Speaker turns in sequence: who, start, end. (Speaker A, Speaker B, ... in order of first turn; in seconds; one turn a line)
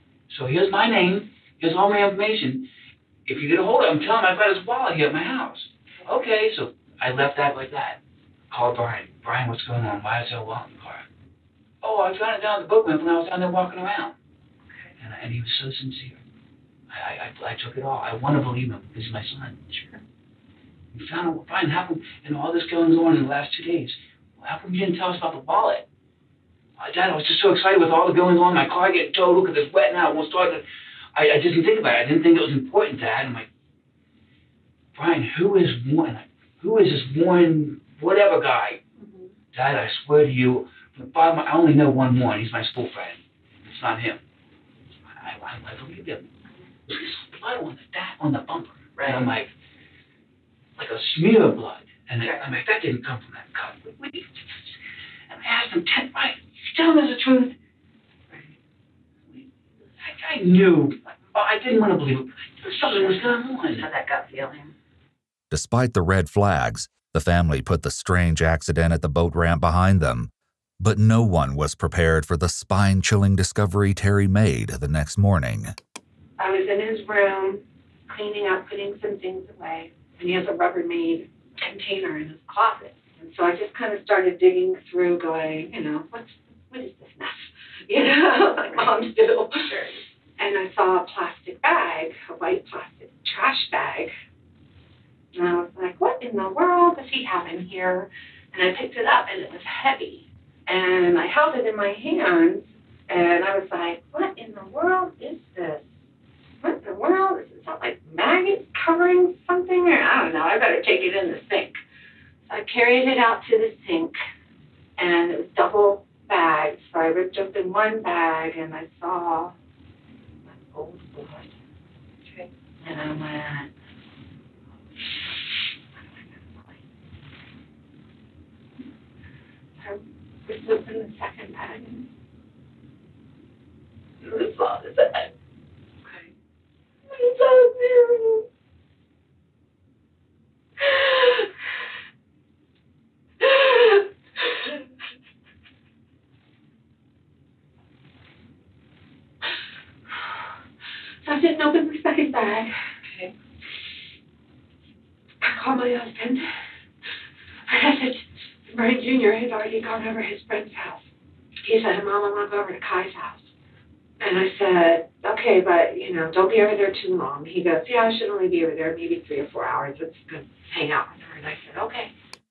Speaker A: 0.3-2.7
Speaker A: 3.3-8.0
Speaker A: 8.5-11.1
Speaker A: 11.8-14.1
Speaker A: 15.0-16.2
Speaker A: 16.9-20.0
Speaker A: 20.9-25.9
Speaker A: 26.8-30.6
Speaker A: 31.1-33.5
Speaker A: 35.0-38.8
Speaker B: 39.0-39.3
Speaker A: 39.5-44.2
Speaker A: 45.1-46.3
Speaker A: 46.9-49.5
Speaker B: 49.0-49.3
Speaker A: 50.8-54.7
Speaker B: 52.2-52.5
Speaker A: 55.3-57.5
Speaker A: 60.0-63.9
Speaker B: 62.6-64.7
Speaker C: 65.5-75.8
Speaker B: 76.4-94.1
Speaker B: 95.3-105.9
Speaker B: 106.6-111.8
Speaker B: 112.5-114.2
Speaker B: 115.0-119.5
Speaker B: 120.5-121.6
Speaker B: 122.3-123.7
Speaker B: 124.9-126.8
Speaker B: 129.8-132.1
Speaker B: 134.2-135.3
Speaker B: 136.0-136.3
Speaker B: 137.1-138.4
Speaker B: 140.8-141.4
Speaker B: 143.4-144.0
Speaker B: 151.2-153.3
Speaker B: 155.4-156.5
Speaker B: 157.7-161.0
Speaker B: 161.6-163.5
Speaker B: 164.2-172.1